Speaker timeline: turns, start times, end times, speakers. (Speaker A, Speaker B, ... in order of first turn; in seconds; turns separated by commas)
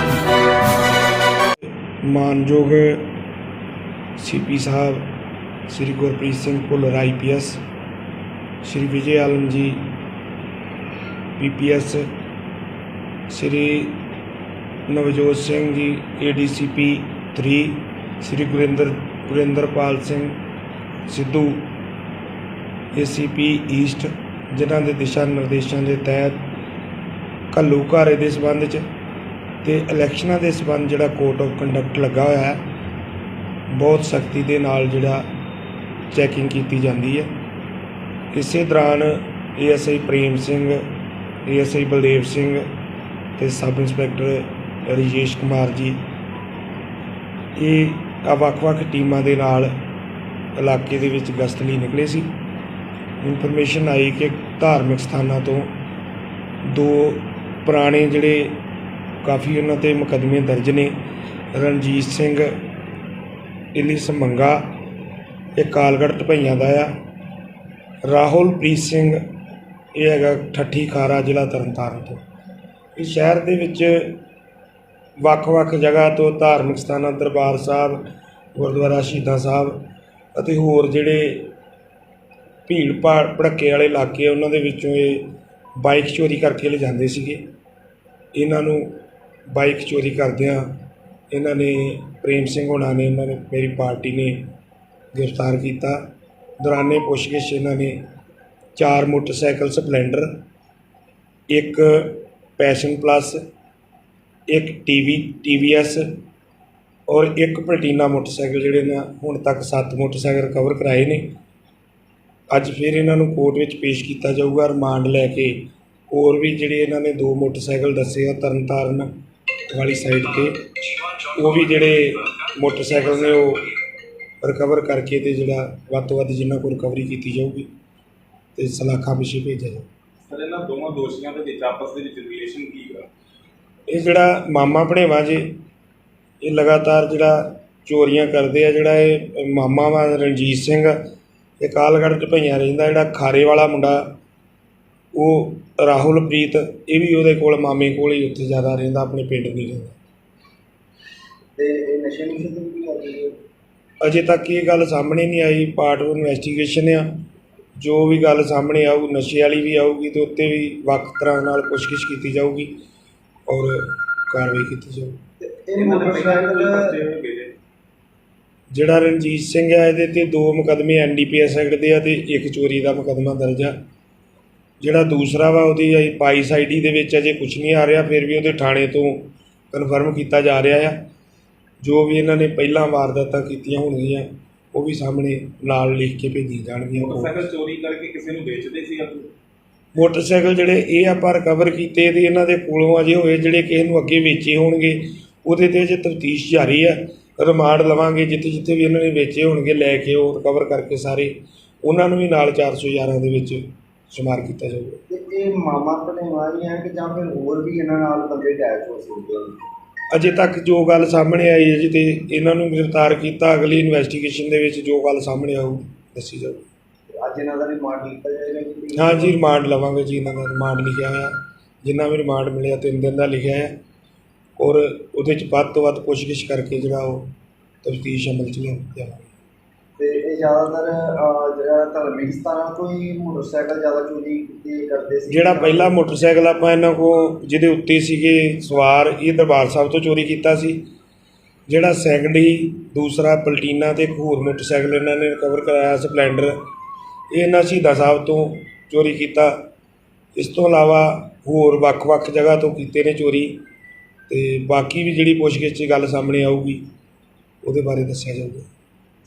Speaker A: 2.0-3.1, Speaker A: 4.2-5.1, Speaker A: 5.7-7.6, Speaker A: 8.6-9.9, Speaker A: 11.4-12.0, Speaker A: 13.3-14.0, Speaker A: 14.9-20.3, Speaker A: 21.1-21.7, Speaker A: 22.9-26.5, Speaker A: 27.5-28.8, Speaker A: 29.6-32.6, Speaker A: 33.7-35.2, Speaker A: 36.1-37.3, Speaker A: 38.3-40.8, Speaker A: 41.5-42.6, Speaker A: 43.4-46.0, Speaker A: 47.5-49.7, Speaker A: 50.5-52.4, Speaker A: 53.2-55.8, Speaker A: 56.6-58.6, Speaker A: 59.2-61.0, Speaker A: 61.5-62.6, Speaker A: 63.7-64.8, Speaker A: 65.5-66.9, Speaker A: 68.0-69.2, Speaker A: 69.9-72.2, Speaker A: 73.0-74.2, Speaker A: 75.2-81.5, Speaker A: 82.7-87.4, Speaker A: 88.3-89.0, Speaker A: 89.5-90.7, Speaker A: 91.3-94.4, Speaker A: 95.1-96.1, Speaker A: 96.6-98.0, Speaker A: 98.8-100.3, Speaker A: 101.5-103.4, Speaker A: 104.5-106.0, Speaker A: 107.1-111.3, Speaker A: 112.5-119.1, Speaker A: 119.7-120.6, Speaker A: 121.3-123.7, Speaker A: 124.4-127.7, Speaker A: 128.6-129.9, Speaker B: 130.3-133.1, Speaker A: 133.9-135.5, Speaker A: 136.4-140.9, Speaker A: 141.6-144.1, Speaker A: 145.1-149.9, Speaker C: 151.6-153.3, Speaker A: 154.0-157.1, Speaker A: 157.8-162.7, Speaker A: 163.5-165.2, Speaker C: 165.4-167.0, Speaker B: 165.7-167.5, Speaker A: 168.7-173.8, Speaker A: 174.8-181.0, Speaker A: 181.8-187.4, Speaker B: 187.0-189.3, Speaker A: 189.9-205.0, Speaker C: 205.1-209.6, Speaker A: 210.1-216.7, Speaker C: 217.2-219.4, Speaker A: 218.9-223.8, Speaker A: 224.6-227.3, Speaker A: 227.8-229.3, Speaker C: 230.0-236.0, Speaker A: 235.3-240.8, Speaker A: 241.7-246.6, Speaker A: 247.3-249.6, Speaker A: 250.3-253.6, Speaker A: 254.3-256.8, Speaker A: 257.6-258.7